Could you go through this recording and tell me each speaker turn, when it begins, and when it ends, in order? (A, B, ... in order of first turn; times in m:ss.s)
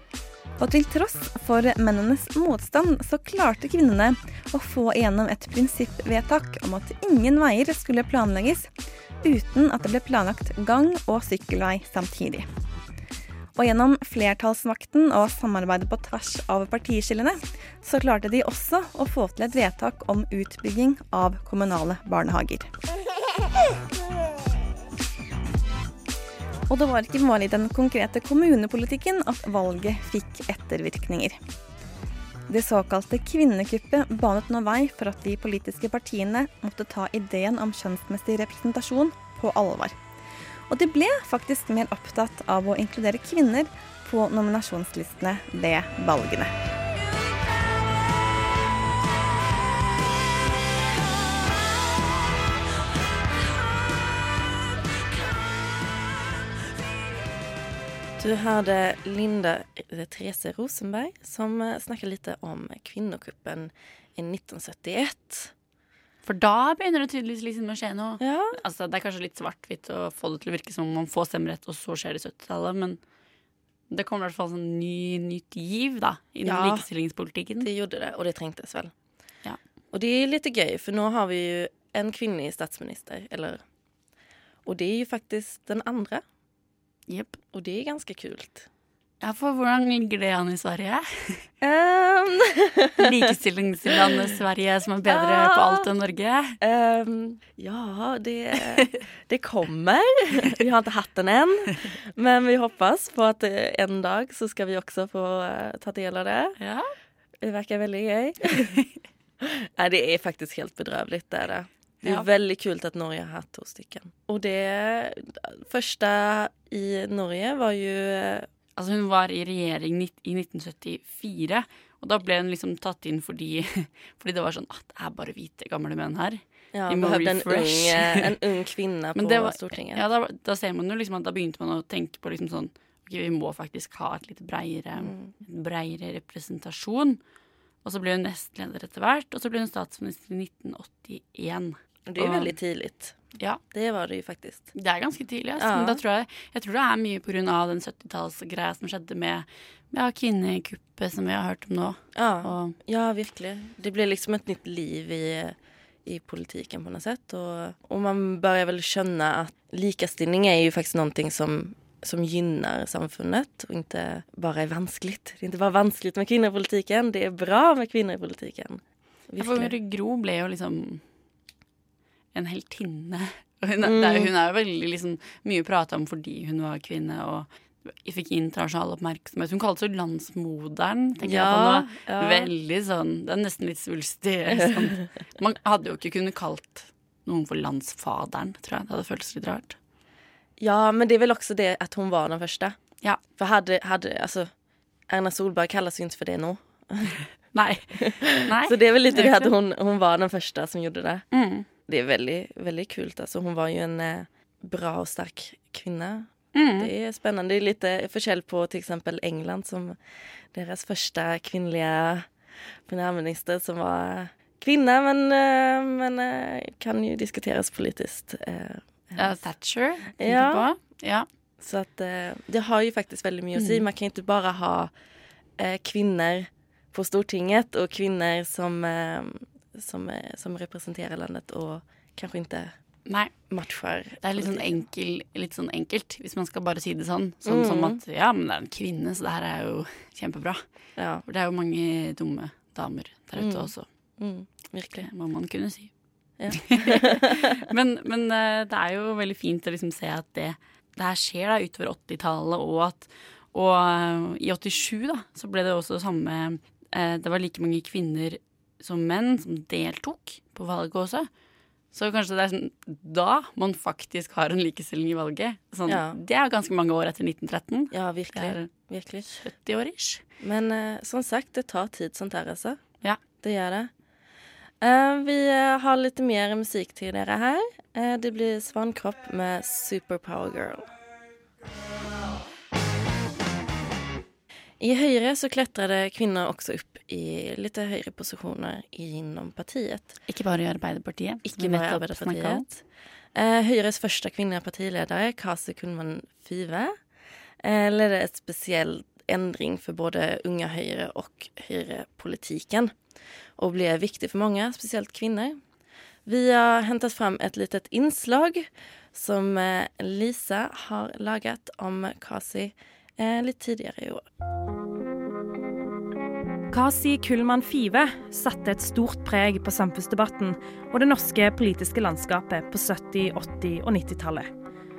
0:00.6-0:08.7 A
0:09.2-0:12.5 A
0:13.6-0:22.7 A
0:26.7-0:31.4 A
0:32.5-0:40.0 A
0:40.7-0:46.5 A
0:58.2-1:05.5 B
1:06.2-1:13.0 C
1:08.2-1:08.6 B
1:13.9-1:17.7 C
1:16.4-1:16.8 B
1:17.6-1:18.9 B
1:19.9-1:23.6 B
1:24.7-1:26.2 B
1:27.1-1:27.4 C
1:27.5-1:28.7 B
1:29.2-1:31.5 C
1:31.6-1:33.1 B
1:33.0-1:36.6 C
1:35.1-1:35.9 B
1:36.6-1:46.6 B
1:46.6-1:46.9 C
1:47.4-1:48.9 B
1:49.4-1:58.5 B
1:58.8-2:08.4 C
2:06.7-2:10.0 B
2:09.2-2:17.2 C
2:15.0-2:15.3 B
2:17.8-2:22.5 C
2:22.1-2:23.2 B
2:23.7-2:24.7 B
2:24.8-2:32.8 C
2:25.6-2:26.0 B
2:32.2-2:35.6 B
2:36.1-2:49.7 B
2:49.4-2:51.0 C
2:52.3-3:09.8 C
2:53.8-2:54.3 B
3:01.2-3:02.5 B
3:10.6-3:12.8 B
3:13.4-3:14.5 B
3:15.1-3:17.2 B
3:17.5-3:19.5 C
3:18.0-3:21.3 B
3:21.3-3:21.6 C
3:21.9-3:30.0 B
3:26.6-3:26.9 C
3:30.5-3:32.3 B
3:32.9-3:39.3 B
3:39.2-3:41.3 C
3:40.2-3:40.7 B
3:41.6-3:44.9 B
3:43.6-3:43.8 C
3:45.6-3:52.7 B
3:53.1-3:53.3 C
3:53.5-3:54.7 B
3:54.2-4:00.6 C
3:57.4-3:58.0 B
4:01.0-4:01.2 B
4:01.2-4:03.8 C
4:03.4-4:05.1 B
4:05.0-4:05.9 C
4:06.4-4:07.4 B
4:06.5-4:21.3 C
4:21.9-4:28.7 C
4:25.9-4:26.2 B
4:27.9-4:29.4 B
4:29.4-4:30.2 C
4:30.4-4:32.8 B
4:33.4-4:33.9 B
4:34.8-4:40.9 B
4:44.8-4:50.1 B
4:50.3-4:52.6 C
4:51.5-4:52.8 B
4:53.4-4:56.9 B
4:57.6-5:02.9 B
5:03.6-5:05.6 B
5:06.2-5:14.2 B
5:16.7-5:24.5 D